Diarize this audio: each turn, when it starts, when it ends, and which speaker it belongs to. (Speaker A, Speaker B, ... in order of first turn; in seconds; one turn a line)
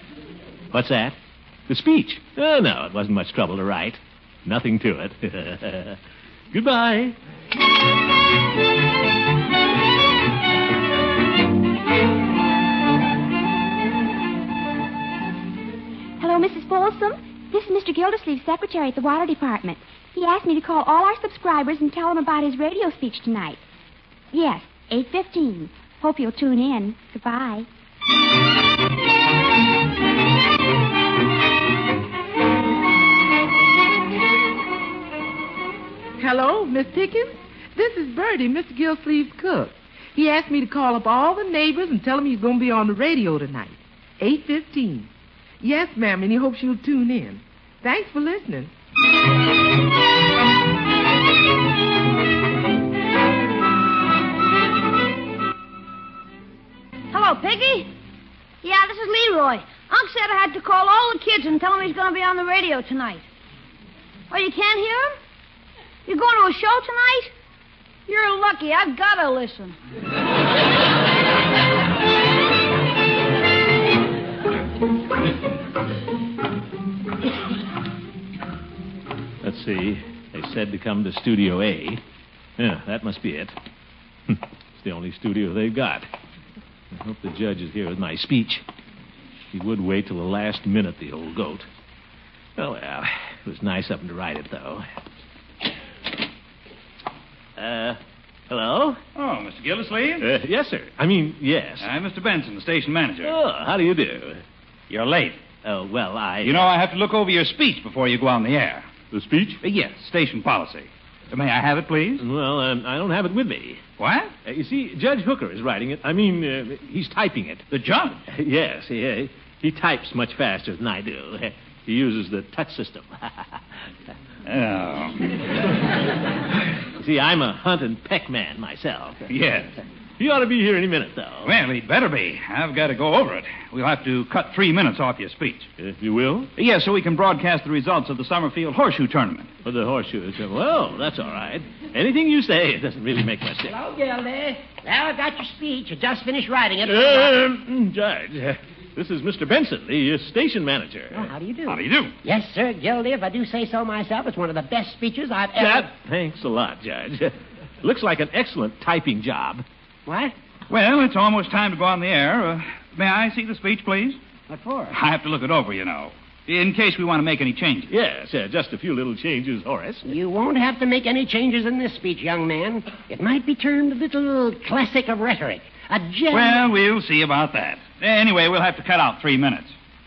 Speaker A: 0.7-1.2
Speaker A: 1.7-6.0
Speaker A: 6.5-7.1
Speaker B: 16.2-23.6
Speaker B: 24.3-27.6
Speaker C: 36.2-45.1
Speaker C: 45.6-48.7
Speaker D: 57.1-57.9
Speaker D: 58.6-63.2
Speaker D: 64.3-65.2
Speaker D: 66.0-67.3
Speaker D: 68.1-69.8
Speaker A: 79.4-82.0
Speaker A: 82.6-83.5
Speaker A: 84.3-86.1
Speaker A: 86.9-88.6
Speaker A: 89.5-91.7
Speaker A: 92.6-94.8
Speaker A: 97.6-98.0
Speaker A: 98.5-99.0
Speaker E: 99.1-100.3
Speaker A: 100.2-101.9
Speaker E: 101.8-103.4
Speaker A: 103.2-104.4
Speaker E: 104.9-105.4
Speaker A: 105.6-106.7
Speaker E: 106.4-108.9
Speaker A: 109.1-109.6
Speaker E: 109.6-112.2
Speaker A: 112.2-113.8
Speaker E: 114.0-114.3
Speaker A: 114.5-117.7
Speaker E: 117.7-118.2
Speaker A: 118.3-123.6
Speaker E: 124.4-125.4
Speaker A: 127.0-129.2
Speaker E: 129.3-129.7
Speaker A: 130.2-131.5
Speaker E: 131.4-135.7
Speaker A: 135.8-136.5
Speaker E: 136.6-139.5
Speaker A: 139.6-143.7
Speaker F: 143.7-147.4
Speaker A: 146.9-151.3
Speaker F: 151.1-155.9
Speaker E: 151.7-152.1
Speaker A: 155.5-159.6
Speaker F: 160.1-160.3
Speaker E: 160.7-164.2
Speaker F: 164.5-165.0
Speaker E: 164.9-167.9
Speaker A: 167.9-170.1
Speaker F: 170.1-176.7
Speaker E: 176.3-179.7